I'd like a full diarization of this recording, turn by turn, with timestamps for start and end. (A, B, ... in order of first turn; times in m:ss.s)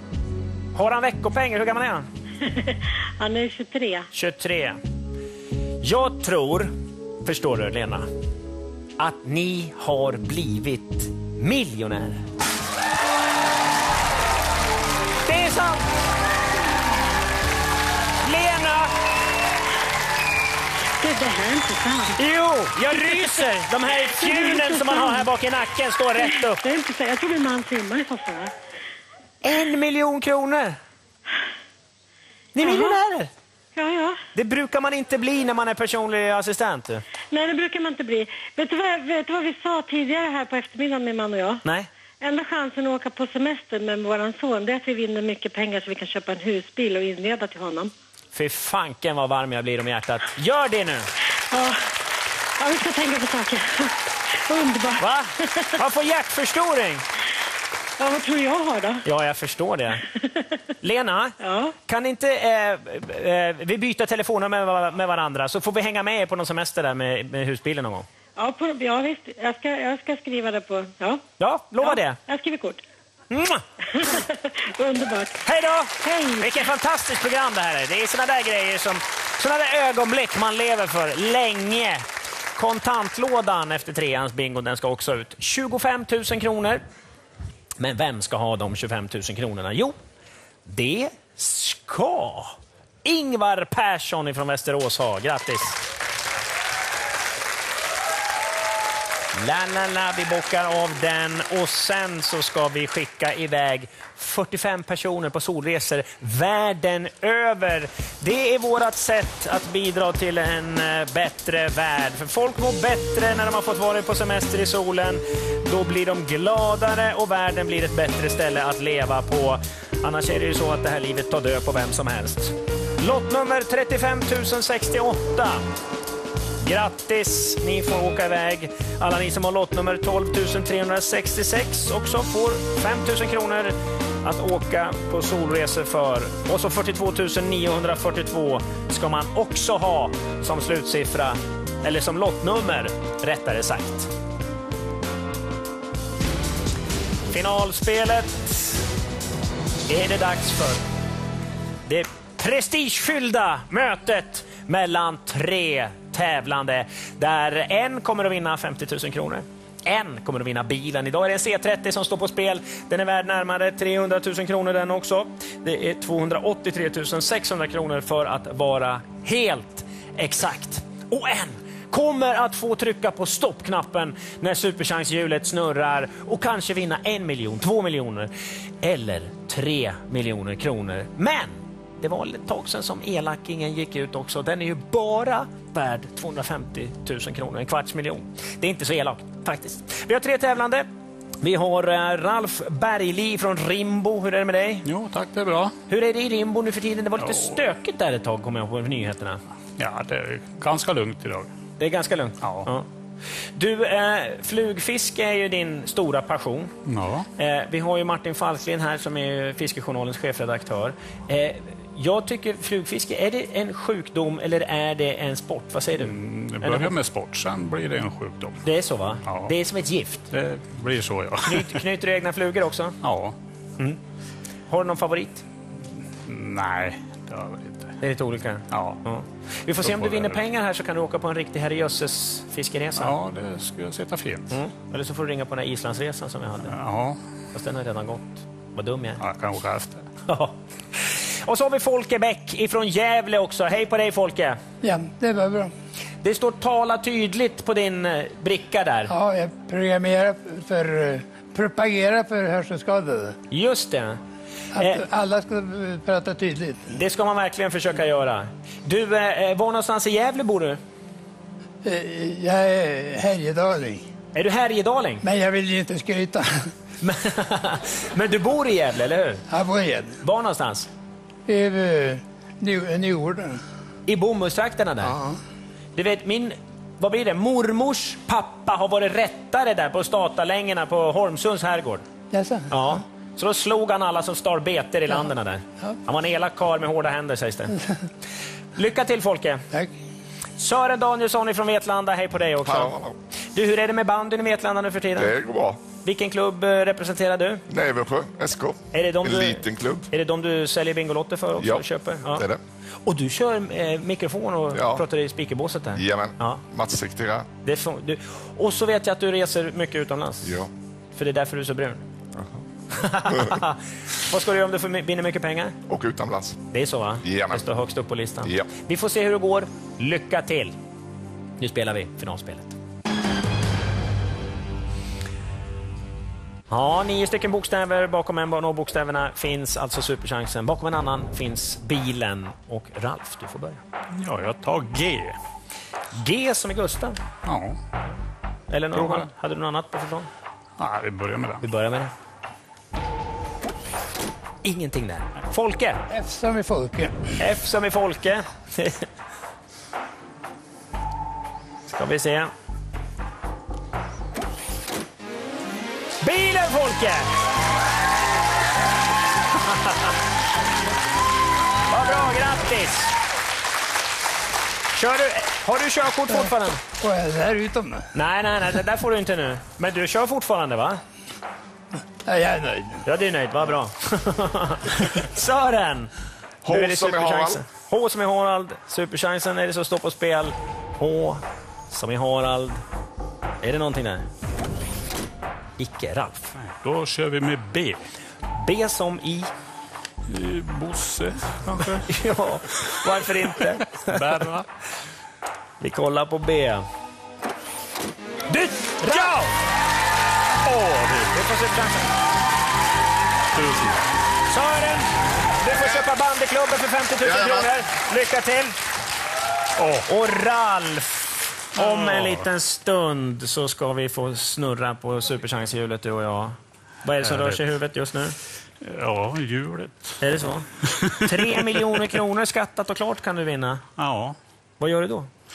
0:00.7-0:02.0 A
0:02.4-0:04.1 B
0:04.1-0:04.8 A
0:05.8-0:06.7 A
0:07.2-0:08.1 A
0:09.0-0:12.2 A
0:15.2-0:15.9 A
0:18.2-0:18.9 A
0:21.0-0:22.2 B
0:22.1-0:26.6 A
0:22.9-0:23.4 B
0:24.2-0:25.3 B
0:26.2-0:28.5 B
0:29.4-0:30.8 A
0:32.5-0:33.3 A
0:32.6-0:33.0 B
0:33.7-0:34.2 B
0:34.3-0:37.0 A
0:37.3-0:41.6 B
0:41.6-0:41.9 A
0:42.2-0:47.9 B
0:48.3-0:51.1 A
0:51.5-0:51.8 B
0:52.6-0:55.7 B
0:55.0-0:57.0 A
0:58.0-0:59.0 B
0:59.0-1:00.0 A
1:00.8-1:01.4 A
1:01.4-1:01.7 B
1:01.9-1:08.0 A
1:08.4-1:11.2 B
1:11.4-1:12.2 A
1:11.8-1:12.8 B
1:13.3-1:13.6 A
1:13.9-1:15.3 B
1:15.4-1:22.0 A
1:16.0-1:16.7 B
1:22.6-1:26.8 A
1:27.8-1:30.0 A
1:30.6-1:35.8 A
1:39.3-2:05.6 A
2:06.6-2:24.1 A
2:27.3-2:28.8 A
2:29.9-2:30.8 A
2:31.9-2:58.3 A
2:58.8-3:10.9 A
3:11.4-3:14.8 A
3:14.8-3:15.7 C
3:15.9-3:19.4 A
3:17.2-3:17.6 C
3:19.8-3:21.5 C
3:21.8-3:22.9 A
3:22.4-3:22.7 C
3:23.6-3:26.7 A
3:26.8-3:27.3 C
3:27.4-3:37.0 A
3:36.0-3:38.6 C
3:38.6-3:40.2 A
3:39.2-3:39.5 C
3:40.3-3:41.8 C
3:41.4-3:43.0 A
3:43.0-3:43.4 C
3:44.7-3:45.4 A
3:46.2-3:47.9 C
3:48.0-3:53.2 A
3:48.7-3:49.0 C
3:49.8-3:50.4 C
3:52.9-3:54.6 C
3:54.5-3:56.8 A
3:56.7-3:57.2 C
3:57.5-3:59.2 A
3:59.2-4:00.0 C
4:00.2-4:04.6 A
4:04.8-4:05.7 D
4:06.2-4:09.1 A
4:09.1-4:13.4 D
4:13.5-4:14.2 A
4:14.7-4:16.9 D
4:14.8-4:15.0 A
4:16.9-4:20.8 A
4:21.8-4:24.1 D
4:24.3-4:25.2 A
4:25.2-4:26.7 D
4:27.0-4:29.4 A
4:29.5-4:30.2 D
4:30.2-4:30.9 A
4:31.5-4:33.6 D
4:34.0-4:35.1 A
4:35.0-4:35.4 D
4:36.0-4:42.0 A
4:42.3-4:43.0 D
4:42.7-4:47.8 A
4:48.8-4:49.6 A
4:50.6-4:53.0 A
4:52.6-4:53.2 E
4:53.5-4:55.3 A
4:55.2-4:55.8 E
4:56.0-4:57.6 A
4:57.7-5:00.1 E
4:58.9-5:02.4 A
5:01.6-5:02.6 E
5:03.0-5:06.6 A
5:04.7-5:05.0 E
5:05.9-5:07.5 E
5:07.6-5:10.6 A
5:10.4-5:10.7 E
5:11.2-5:12.0 A
5:12.9-5:15.7 A
5:13.3-5:13.6 E
5:15.9-5:16.6 E
5:16.7-5:20.7 A
5:17.2-5:17.7 E
5:18.4-5:18.7 E
5:21.6-5:22.7 A
5:26.7-5:33.8 A
5:34.1-5:35.4 C
5:36.1-5:37.2 A
5:37.4-5:37.8 C
5:38.7-5:40.3 A
5:38.9-5:39.3 C
5:40.8-5:41.7 C
5:41.6-5:42.1 A
5:44.6-5:46.0 A
5:46.1-5:47.2 D
5:47.4-5:49.0 A
5:51.9-5:52.5 A
5:56.2-5:57.3 A
6:01.9-6:03.1 A
6:04.9-6:06.8 A
6:06.3-6:08.1 D
6:08.1-6:11.0 A
6:12.2-6:13.0 D
6:13.0-6:16.1 A
6:16.6-6:17.6 E
6:16.7-6:22.8 A
6:23.6-6:24.3 A
6:25.8-6:26.5 A
6:26.6-6:28.0 C
6:28.6-6:29.5 A
6:30.3-6:32.1 C
6:31.7-6:34.5 A
6:33.1-6:34.7 C
6:35.8-6:36.8 A
6:38.5-6:39.5 A
6:38.8-6:39.5 C
6:40.6-6:41.3 C
6:41.3-6:42.1 A
6:43.5-6:44.0 C
6:44.5-6:48.8 A
6:49.8-6:50.1 C
6:50.0-6:58.4 A
6:51.8-6:52.5 C
6:57.2-6:57.7 C
6:58.8-7:00.4 C
7:00.2-7:00.7 A
7:01.0-7:02.2 C
7:01.2-7:03.8 A
7:04.0-7:04.4 C
7:04.8-7:05.3 A